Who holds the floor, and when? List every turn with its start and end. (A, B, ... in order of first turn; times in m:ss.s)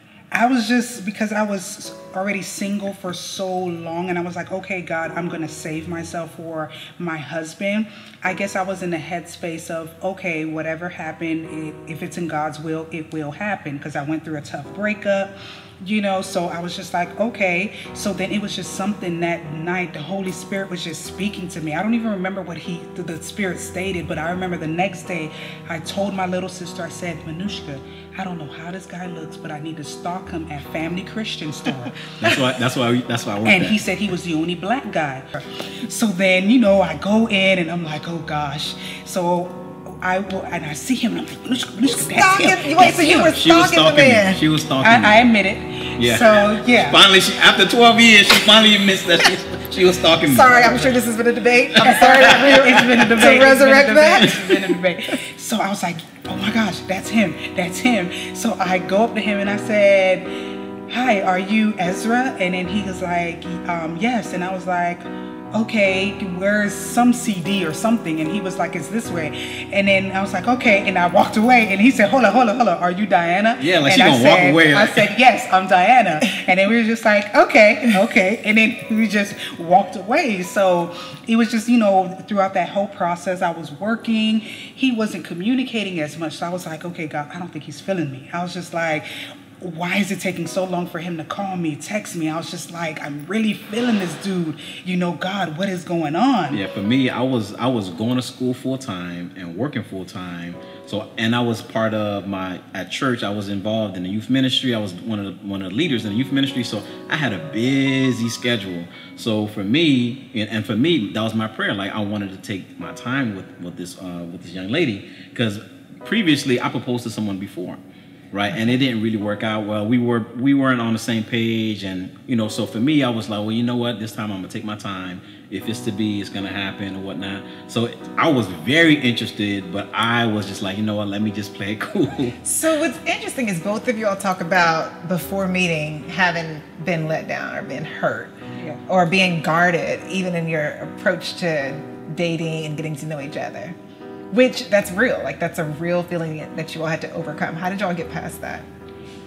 0:00.3-0:32.5 A
0:32.2-0:33.8 B
0:33.4-0:43.3 A
0:42.0-0:44.4 C
0:42.8-0:45.2 B
0:44.8-0:47.0 A
0:46.0-0:51.0 B
0:50.2-0:54.3 C
0:51.7-0:53.2 B
0:51.8-1:00.3 A
1:00.9-1:29.0 A
1:13.6-1:15.1 B
1:29.6-1:36.6 A
1:36.5-1:57.8 B
1:58.3-2:12.4 B
2:12.4-2:18.3 C
2:18.5-2:18.8 A
2:18.9-2:23.8 C
2:24.3-2:28.6 C